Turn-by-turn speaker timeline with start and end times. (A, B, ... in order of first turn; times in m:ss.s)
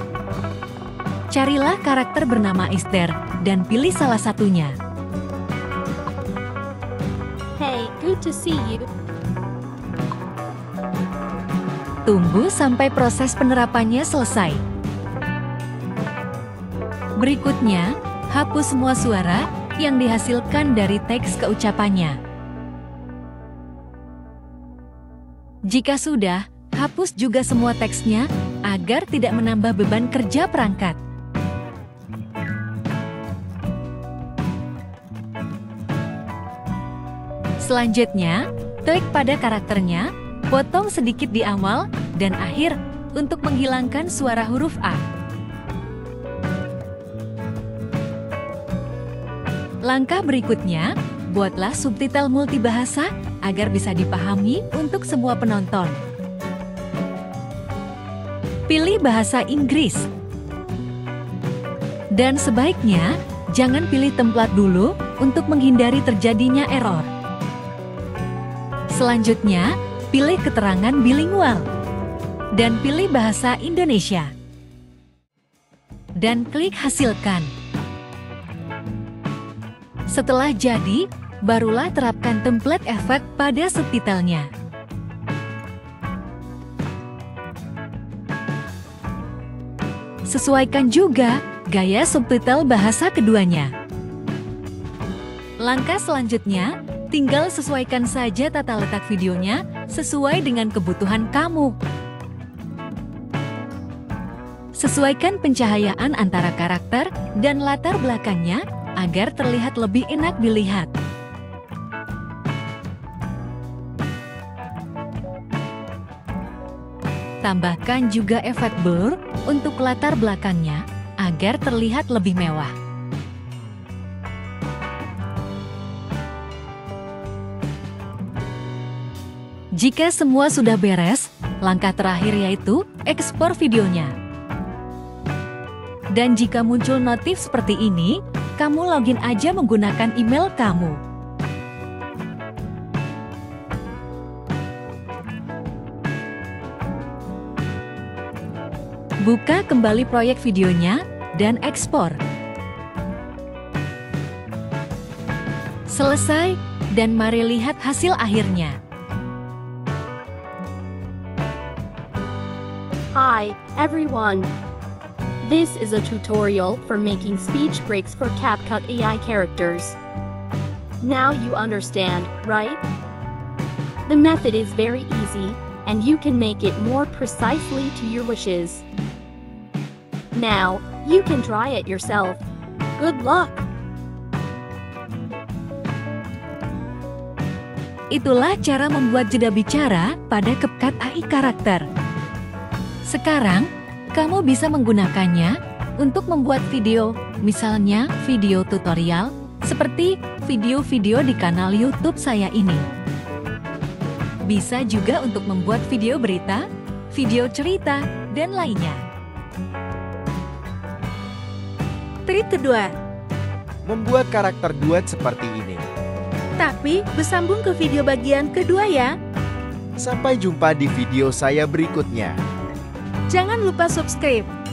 0:01.3-0:04.8 A
0:07.6-0:08.9 B
0:12.0-0:14.6 A
0:17.2-0:22.2 A
0:25.7-0:31.0 A
0:37.6-0:45.0 A
0:49.8-0:56.0 A
0:58.7-1:00.1 A
1:02.1-1:07.1 A
1:08.9-1:11.7 A
1:12.5-1:14.3 A
1:16.2-1:17.5 A
1:20.1-1:24.5 A
1:30.2-1:33.7 A
1:35.6-1:41.7 A
1:44.7-1:50.9 A
1:57.4-2:02.7 A
2:09.7-2:14.1 A
2:16.1-2:21.0 A
2:29.2-2:32.2 A
2:35.9-2:38.8 A
2:43.1-2:44.5 B
2:45.4-2:50.0 B
2:51.0-2:52.8 B
2:54.1-2:58.8 B
3:00.3-3:02.4 B
3:03.0-3:03.6 B
3:08.1-3:11.8 A
3:13.0-3:22.8 A
3:24.4-3:29.0 A
3:32.2-3:32.9 C
3:33.8-3:35.8 D
3:36.6-3:39.2 C
3:40.0-3:42.4 D
3:43.3-3:44.5 C